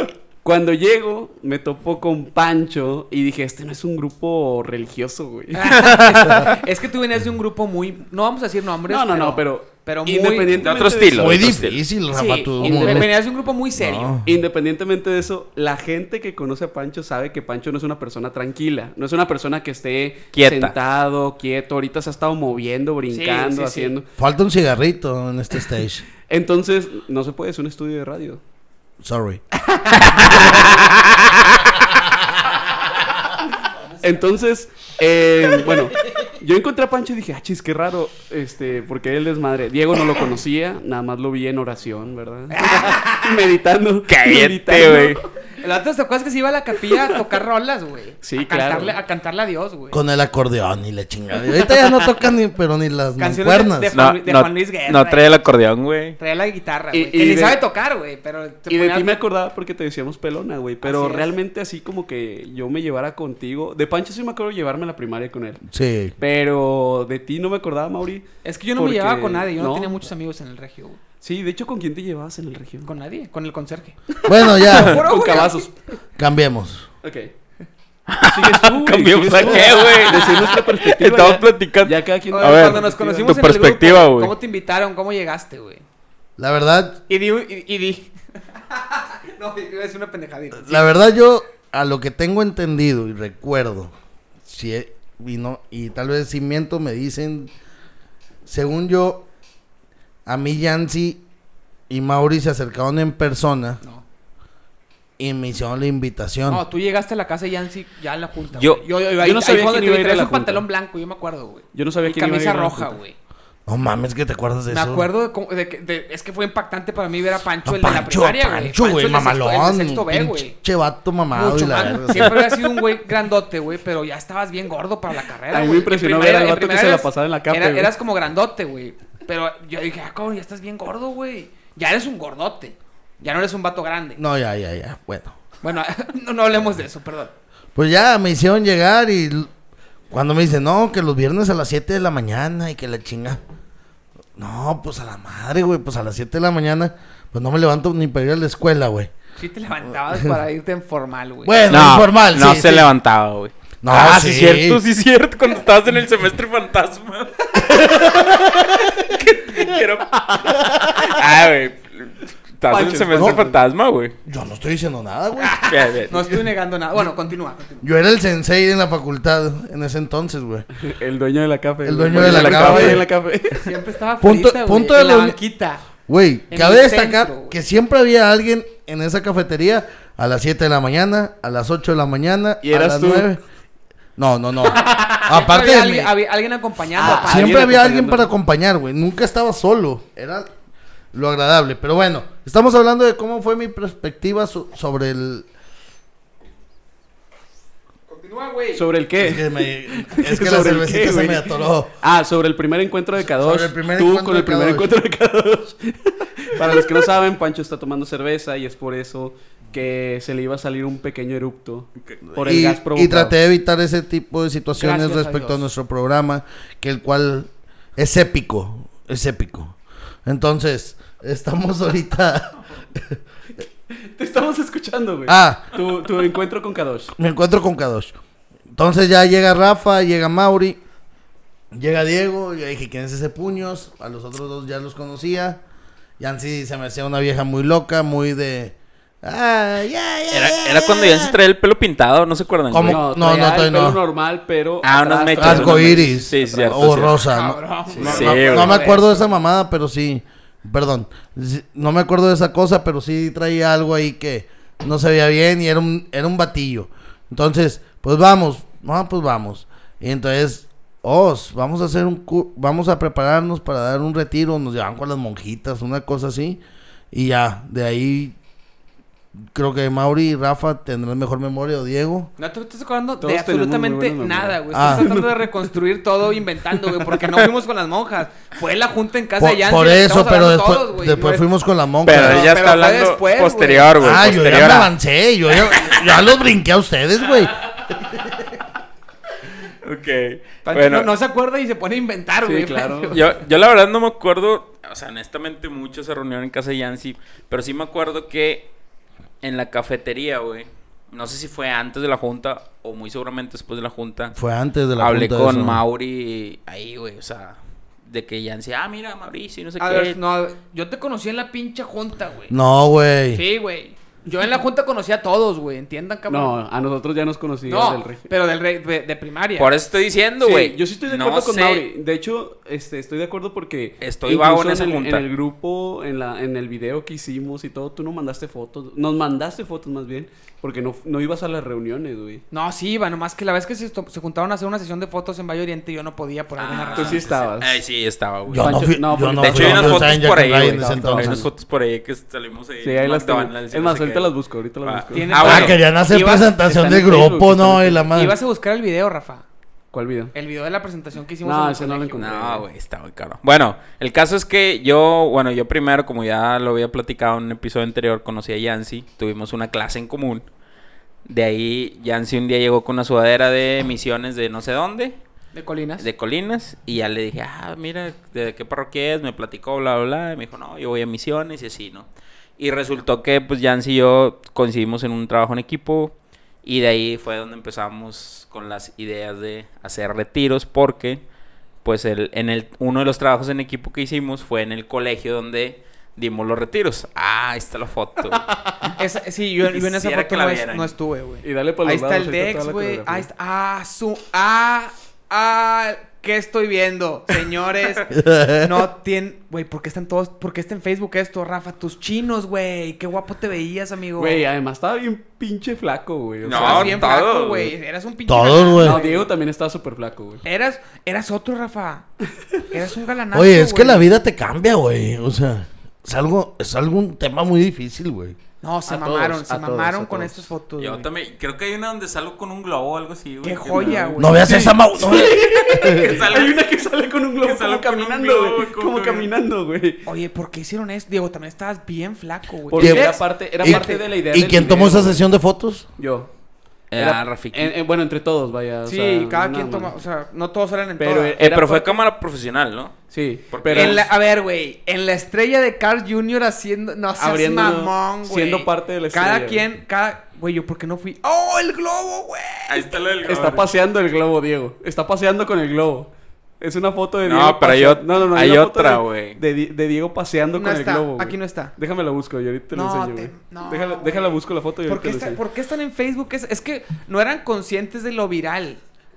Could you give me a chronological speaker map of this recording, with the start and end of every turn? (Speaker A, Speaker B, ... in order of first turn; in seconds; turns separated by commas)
Speaker A: 0.4-5.7, Speaker B: 5.5-10.5, Speaker C: 5.7-6.5, Speaker A: 8.9-11.6, Speaker C: 10.6-11.8, Speaker D: 11.1-13.1, Speaker B: 12.1-14.2, Speaker A: 12.6-13.1, Speaker D: 13.8-14.3, Speaker A: 14.2-24.1, Speaker C: 20.3-20.7, Speaker B: 23.1-23.9, Speaker D: 24.2-26.0, Speaker A: 26.3-28.4, Speaker D: 29.0-29.4, Speaker C: 30.0-30.9, Speaker A: 34.0-45.2, Speaker B: 42.5-43.4, Speaker C: 44.1-45.2, Speaker B: 45.6-50.0, Speaker A: 48.2-49.0, Speaker D: 49.9-53.9, Speaker B: 53.2-55.3, Speaker C: 53.9-56.2, Speaker B: 56.2-59.1, Speaker A: 56.9-57.6, Speaker A: 58.7-65.6, Speaker B: 60.8-61.3, Speaker D: 65.7-66.2, Speaker A: 66.2-69.9, Speaker B: 68.4-71.0, Speaker A: 71.2-72.9, Speaker B: 72.8-74.0, Speaker D: 74.2-75.4, Speaker A: 74.4-75.7, Speaker B: 74.7-75.6, Speaker D: 76.2-76.9, Speaker A: 77.0-77.3, Speaker C: 78.1-84.3, Speaker A: 78.3-83.3, Speaker B: 82.3-85.8, Speaker D: 86.4-87.0, Speaker B: 87.1-88.1, Speaker B: 88.7-91.0, Speaker D: 90.5-93.9, Speaker D: 94.4-97.5, Speaker D: 98.5-99.3, Speaker D: 100.2-101.2, Speaker D: 101.9-103.8, Speaker D: 105.2-106.6, Speaker B: 106.5-113.2, Speaker C: 108.5-108.8, Speaker A: 109.2-110.6, Speaker A: 111.7-113.0, Speaker D: 113.7-115.1, Speaker B: 114.7-120.5, Speaker D: 117.6-122.4, Speaker B: 121.3-134.2, Speaker A: 125.5-127.9, Speaker D: 134.2-135.3, Speaker B: 135.6-137.3, Speaker D: 137.7-139.5, Speaker D: 140.1-143.4, Speaker D: 144.4-149.1, Speaker B: 149.4-151.6, Speaker D: 151.4-152.9, Speaker C: 151.7-164.1, Speaker D: 153.8-154.8, Speaker D: 157.6-158.9, Speaker D: 160.7-161.1, Speaker A: 162.7-163.6, Speaker D: 163.1-163.4, Speaker D: 164.2-165.6, Speaker B: 165.4-167.8, Speaker C: 165.7-166.2, Speaker D: 167.8-170.7, Speaker A: 170.8-173.7, Speaker D: 171.8-173.0, Speaker B: 172.1-173.0, Speaker B: 173.5-175.8, Speaker D: 174.2-175.4, Speaker D: 176.1-183.4, Speaker B: 176.5-177.6, Speaker A: 182.6-183.3, Speaker D: 184.2-186.1, Speaker B: 184.6-187.9, Speaker A: 186.9-188.3, Speaker D: 187.0-190.5, Speaker D: 191.1-195.5, Speaker B: 198.1-198.8, Speaker A: 198.7-213.3, Speaker D: 199.2-201.9, Speaker D: 203.3-204.9, Speaker D: 212.3-223.2, Speaker B: 214.7-215.7, Speaker A: 223.9-227.1, Speaker D: 225.2-225.7, Speaker D: 227.2-228.1, Speaker D: 228.7-230.8, Speaker D: 231.7-235.6, Speaker D: 236.2-241.4, Speaker C: 240.3-243.0, Speaker D: 242.7-244.0, Speaker A: 242.8-247.1, Speaker C: 244.8-247.2, Speaker D: 245.4-266.6, Speaker B: 247.3-249.2, Speaker A: 247.9-248.7, Speaker C: 248.0-248.8, Speaker D: 267.1-268.4, Speaker D: 269.5-272.3, Speaker B: 272.4-281.5, Speaker A: 273.2-275.5, Speaker D: 274.7-275.1, Speaker D: 279.4-282.5, Speaker C: 282.0-284.9, Speaker B: 282.1-284.2, Speaker D: 284.0-287.7, Speaker C: 285.6-286.0, Speaker C: 289.8-291.1, Speaker B: 290.6-293.2, Speaker A: 292.4-293.2, Speaker C: 293.1-298.7, Speaker C: 299.4-304.3, Speaker D: 304.3-305.8, Speaker C: 305.0-310.2, Speaker B: 309.8-312.5, Speaker D: 312.5-313.4, Speaker B: 313.3-316.6, Speaker A: 316.3-318.3, Speaker B: 317.6-319.7, Speaker C: 319.6-321.9, Speaker A: 320.4-332.4, Speaker C: 324.0-325.2, Speaker B: 332.5-337.4, Speaker C: 336.6-345.8, Speaker A: 336.9-337.8, Speaker A: 338.5-341.4, Speaker D: 338.5-341.5, Speaker A: 342.8-345.6, Speaker B: 345.1-346.5, Speaker D: 345.4-348.3, Speaker A: 346.6-348.0, Speaker B: 348.1-349.4, Speaker A: 349.9-350.3, Speaker B: 350.3-352.3, Speaker A: 351.4-352.6, Speaker C: 352.2-360.4, Speaker C: 361.2-365.2, Speaker B: 365.5-366.1, Speaker C: 366.0-381.2, Speaker C: 381.8-389.0, Speaker B: 389.0-404.4, Speaker C: 389.7-390.9, Speaker A: 391.4-393.3, Speaker D: 398.1-398.7, Speaker A: 404.2-407.0, Speaker C: 406.4-407.7, Speaker B: 406.4-409.2, Speaker D: 408.3-409.0, Speaker A: 408.8-410.4, Speaker B: 410.4-412.1, Speaker B: 412.7-414.1, Speaker D: 413.3-418.4, Speaker B: 418.6-421.1, Speaker A: 418.9-420.4, Speaker C: 420.8-424.2, Speaker B: 423.4-424.7, Speaker A: 423.8-430.0, Speaker D: 424.2-426.2, Speaker C: 425.8-426.7, Speaker C: 427.4-429.3, Speaker B: 430.1-434.0, Speaker A: 432.7-435.2, Speaker D: 432.8-435.9, Speaker A: 436.0-436.3, Speaker C: 436.9-437.7, Speaker A: 436.9-439.9, Speaker B: 438.8-441.4, Speaker A: 441.0-442.0, Speaker C: 441.4-444.1, Speaker A: 443.1-444.0, Speaker B: 443.7-452.9, Speaker A: 447.2-449.6, Speaker C: 452.7-453.7, Speaker A: 453.2-465.4, Speaker C: 457.2-459.4, Speaker B: 460.5-461.7, Speaker B: 462.7-468.8